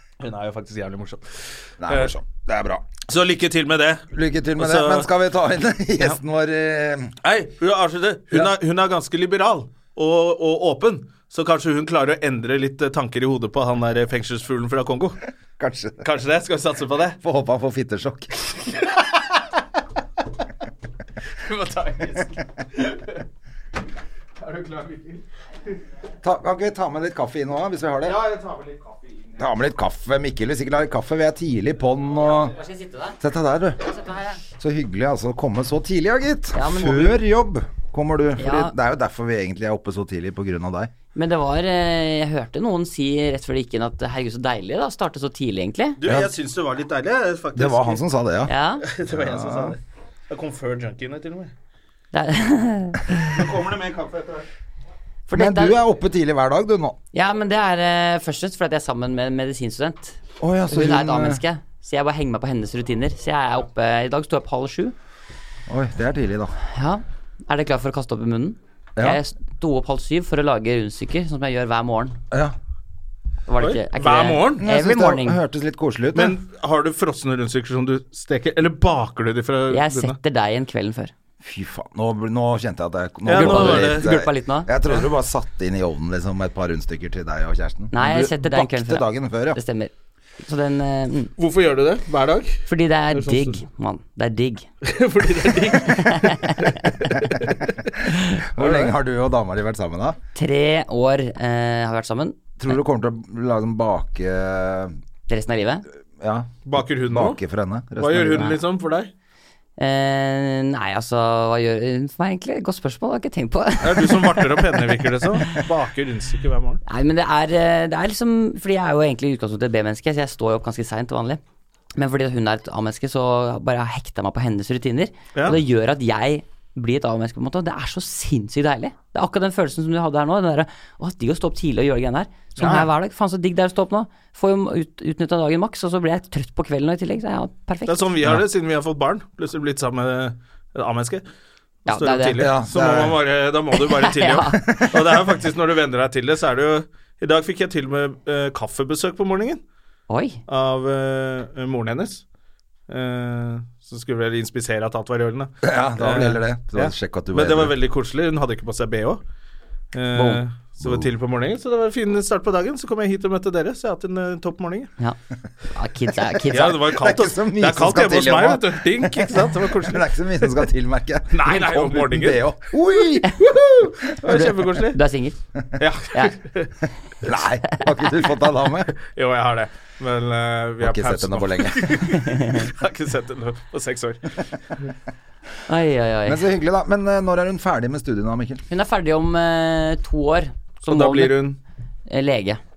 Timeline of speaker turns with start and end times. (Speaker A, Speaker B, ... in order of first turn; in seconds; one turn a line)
Speaker A: 0.2-1.2
Speaker B: 1.8-2.9
Speaker A: 1.9-2.1
Speaker A: 3.1-5.1
Speaker B: 4.1-7.1
Speaker A: 7.2-15.2
Speaker B: 15.6-16.0
Speaker A: 16.0-17.2
Speaker B: 17.2-18.4
Speaker A: 21.4-23.2
Speaker A: 24.4-25.2
Speaker B: 26.2-28.2
Speaker A: 28.0-29.4
Speaker B: 29.4-32.5
Speaker C: 32.4-33.2
Speaker B: 33.2-33.9
Speaker C: 33.9-34.4
Speaker B: 34.6-40.9
Speaker C: 36.5-37.1
Speaker C: 38.4-38.7
Speaker C: 41.1-46.0
Speaker A: 46.0-48.0
Speaker B: 46.0-46.3
Speaker B: 47.5-48.5
Speaker C: 48.5-48.8
Speaker A: 48.8-51.5
Speaker B: 49.1-49.8
Speaker C: 52.1-53.3
Speaker A: 53.2-54.5
Speaker C: 55.3-55.8
Speaker B: 55.3-57.0
Speaker C: 57.1-64.9
Speaker B: 60.4-61.4
Speaker B: 65.7-66.5
Speaker C: 66.7-72.2
Speaker C: 73.5-75.4
Speaker A: 73.6-74.6
Speaker B: 74.6-76.4
Speaker A: 76.1-80.2
Speaker C: 79.7-81.1
Speaker B: 81.4-89.6
Speaker A: 83.2-84.1
Speaker C: 83.3-84.7
Speaker C: 87.9-91.3
Speaker A: 91.4-93.6
Speaker C: 92.7-94.7
Speaker A: 94.8-97.9
Speaker C: 95.7-97.1
Speaker B: 98.4-100.2
Speaker A: 98.5-98.9
Speaker C: 100.3-102.4
Speaker B: 102.6-104.9
Speaker C: 105.3-105.8
Speaker B: 106.2-108.5
Speaker A: 106.7-107.4
Speaker A: 108.0-109.1
Speaker C: 109.8-114.8
Speaker A: 113.8-116.8
Speaker C: 116.9-121.4
Speaker C: 121.9-138.1
Speaker A: 132.6-132.9
Speaker A: 137.8-141.2
Speaker C: 141.9-142.5
Speaker A: 141.9-149.6
Speaker B: 142.4-143.2
Speaker C: 143.7-144.9
Speaker C: 150.1-150.4
Speaker A: 150.5-152.2
Speaker A: 152.9-159.2
Speaker B: 155.6-157.7
Speaker A: 159.9-164.9
Speaker B: 160.8-161.1
Speaker C: 165.7-166.8
Speaker A: 166.5-170.1
Speaker B: 166.7-173.9
Speaker A: 171.3-172.4
Speaker A: 173.3-175.0
Speaker C: 174.3-175.4
Speaker A: 175.8-176.7
Speaker B: 177.2-178.9
Speaker A: 179.0-184.4
Speaker B: 180.8-182.0
Speaker C: 185.7-186.4
Speaker B: 186.2-188.6
Speaker C: 188.7-191.4
Speaker A: 190.9-191.6
Speaker C: 192.1-192.6